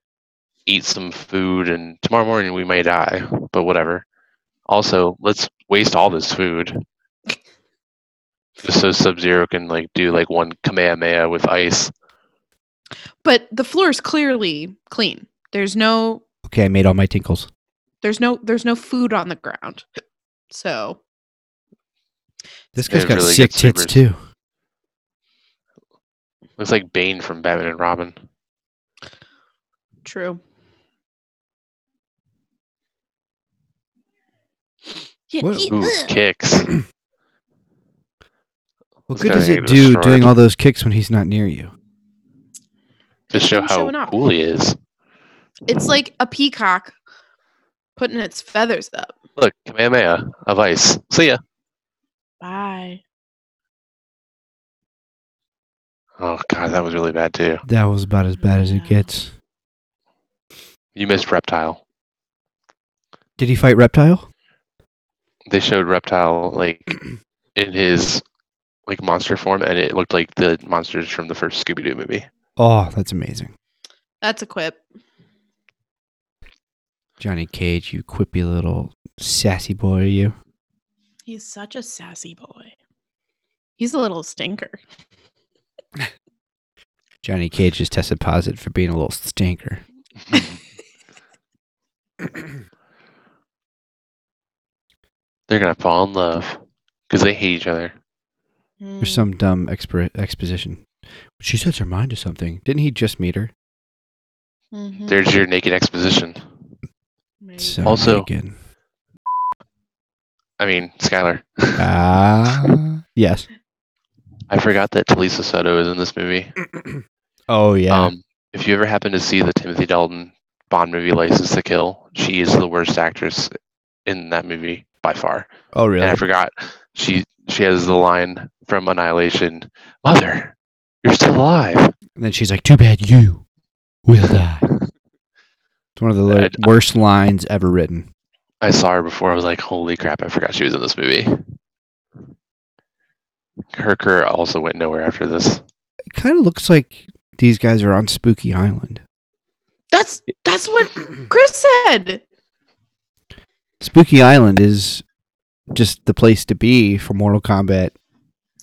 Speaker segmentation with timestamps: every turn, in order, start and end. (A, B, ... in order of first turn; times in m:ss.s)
0:00.6-0:04.0 A
0:04.7-0:06.8 A
0:08.6-0:11.9 A
0:13.2-0:16.2 B
0:16.4-0:17.5 C
0:18.0-0:19.8 B
0:20.5-0:21.0 B
0:22.7-0:24.2 C
0:22.9-0:24.0 A
0:26.6-0:28.2 A
0:30.0-0:30.4 B
0:35.3-0:36.1 B
0:35.4-0:35.7 C
0:35.7-0:36.7 A
0:39.1-0:41.7 C
0:39.1-0:40.3 A
0:43.3-0:44.1 B
0:43.3-0:44.8 A
0:45.7-0:46.9 B
0:48.0-0:49.1 B
0:49.4-0:51.4 A
0:52.4-0:53.0 B
0:56.2-0:57.6 A
0:57.6-0:59.3 C
0:58.4-0:59.1 B
1:00.9-1:01.8 A
1:03.4-1:04.3 C
1:05.5-1:07.0 A
1:07.5-1:08.2 A
1:08.9-1:12.2 A
1:12.6-1:13.5 C
1:14.2-1:14.8 B
1:17.2-1:20.3 C
1:21.3-1:22.7 B
1:23.8-1:24.8 B
1:27.2-1:29.8 C
1:35.5-1:37.9 A
1:38.8-1:39.3 B
1:39.0-1:40.8 C
1:41.4-1:43.5 C
1:44.7-1:45.2 B
1:45.1-1:46.4 A
1:47.4-1:47.9 B
1:47.6-1:48.6 C
1:47.8-1:48.3 A
1:50.6-1:51.8 A
1:51.8-1:53.5 C
1:54.5-1:56.5 A
1:57.5-1:58.1 C
1:57.9-2:03.5 A
2:04.0-2:05.5 A
2:05.7-2:06.2 C
2:06.0-2:11.9 A
2:12.2-2:13.4 C
2:14.0-2:14.6 C
2:16.0-2:18.1 C
2:16.3-2:16.7 A
2:18.6-2:21.4 A
2:23.7-2:25.6 A
2:26.1-2:29.0 C
2:29.9-2:32.2 B
2:33.8-2:35.0 C
2:35.7-2:37.9 C